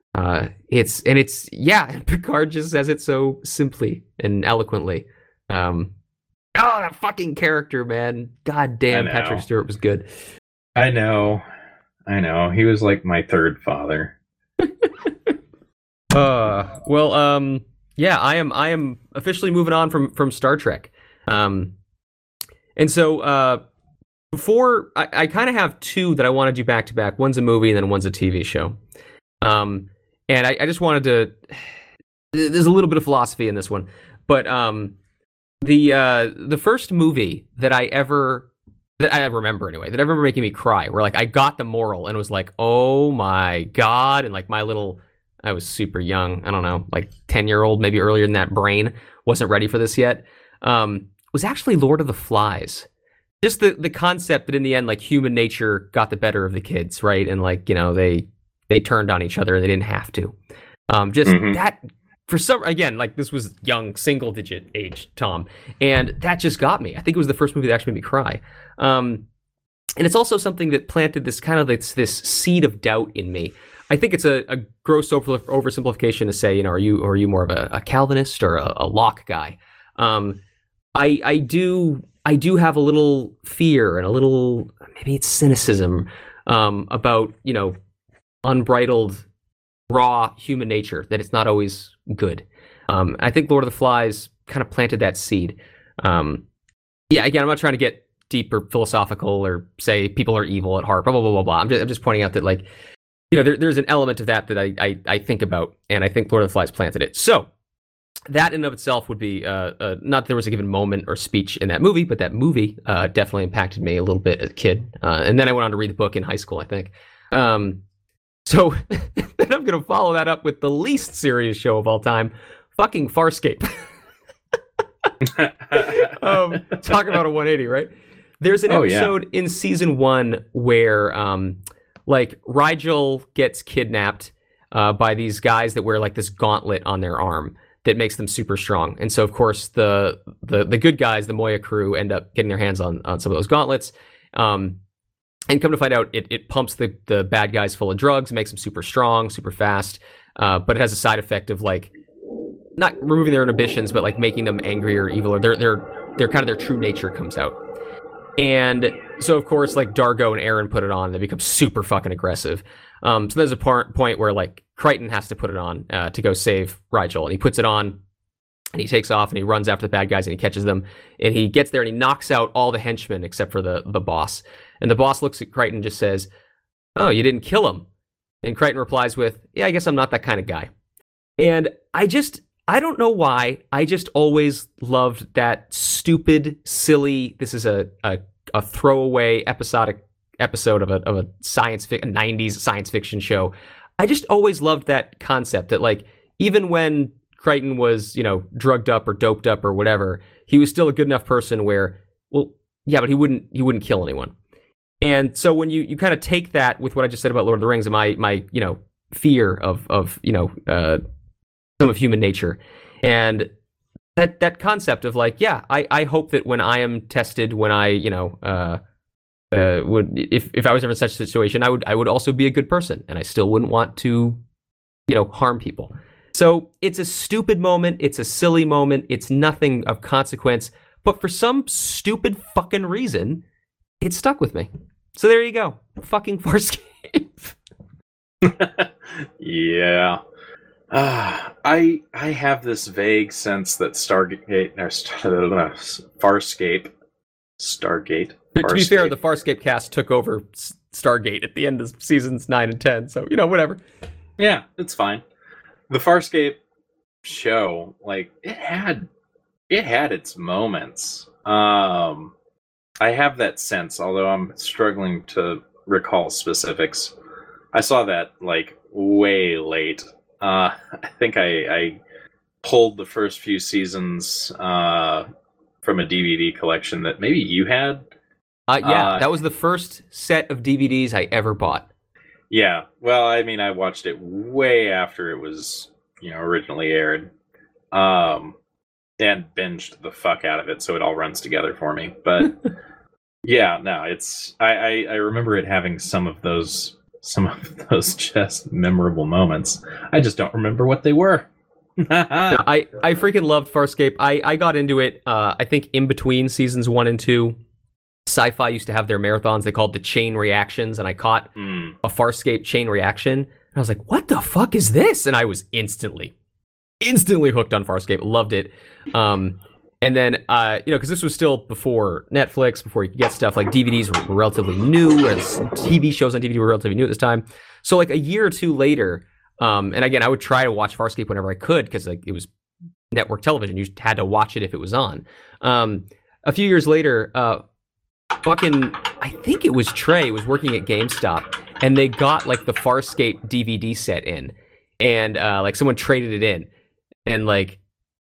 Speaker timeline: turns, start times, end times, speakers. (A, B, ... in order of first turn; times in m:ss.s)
0:00.1-0:05.9 A
0:06.6-0:10.1 A
0:08.9-0:09.4 B
0:10.8-0:11.4 B
0:12.1-0:14.1 B
0:14.8-0:15.3 A
0:16.1-0:21.7 A
0:22.8-0:23.6 A
0:24.3-0:28.8 A
0:29.4-0:31.7 A
0:32.3-0:34.9 A
0:35.6-0:38.5 A
0:39.0-0:52.9 A
0:53.4-1:00.3 A
1:00.9-1:09.2 A
1:01.2-1:01.6 B
1:10.0-1:20.4 A
1:20.9-1:27.7 A
1:28.4-1:29.2 A
1:29.9-1:36.4 A
1:37.1-1:42.6 A
1:43.3-1:47.5 A
1:48.3-1:57.8 A
1:58.4-2:03.9 A
2:05.3-2:06.2 B
2:06.0-2:24.8 A
2:08.7-2:09.1 B
2:25.5-2:31.9 A
2:32.8-2:37.6 A
2:38.4-2:48.0 A
2:48.7-2:56.3 A
2:57.0-2:57.8 A
2:58.4-3:00.7 A
3:01.4-3:24.3 A
3:25.0-3:31.0 A
3:31.8-3:33.5 A
3:34.2-3:38.8 A
3:39.5-3:44.4 A
3:45.1-3:53.4 A
3:54.0-3:57.5 A
3:58.4-4:00.2 B
4:00.9-4:06.9 B
4:07.6-4:09.1 B
4:08.5-4:13.8 A
4:14.4-4:15.2 B
4:15.9-4:16.6 B
4:17.2-4:19.0 B
4:19.7-4:22.3 B
4:23.0-4:27.1 B
4:27.7-4:32.0 B
4:32.6-4:35.3 B
4:35.8-4:38.0 B
4:38.7-4:41.9 A
4:38.8-4:39.2 B
4:42.5-4:47.3 B
4:47.9-4:48.5 B
4:49.2-4:52.6 B
4:53.4-5:01.5 B
5:02.0-5:02.6 B
5:02.5-5:07.6 A
5:08.2-5:11.5 A
5:11.6-5:11.9 B
5:12.0-5:16.3 A
5:17.0-5:32.5 A
5:33.1-5:37.6 A
5:38.4-5:46.7 A
5:47.3-5:47.8 A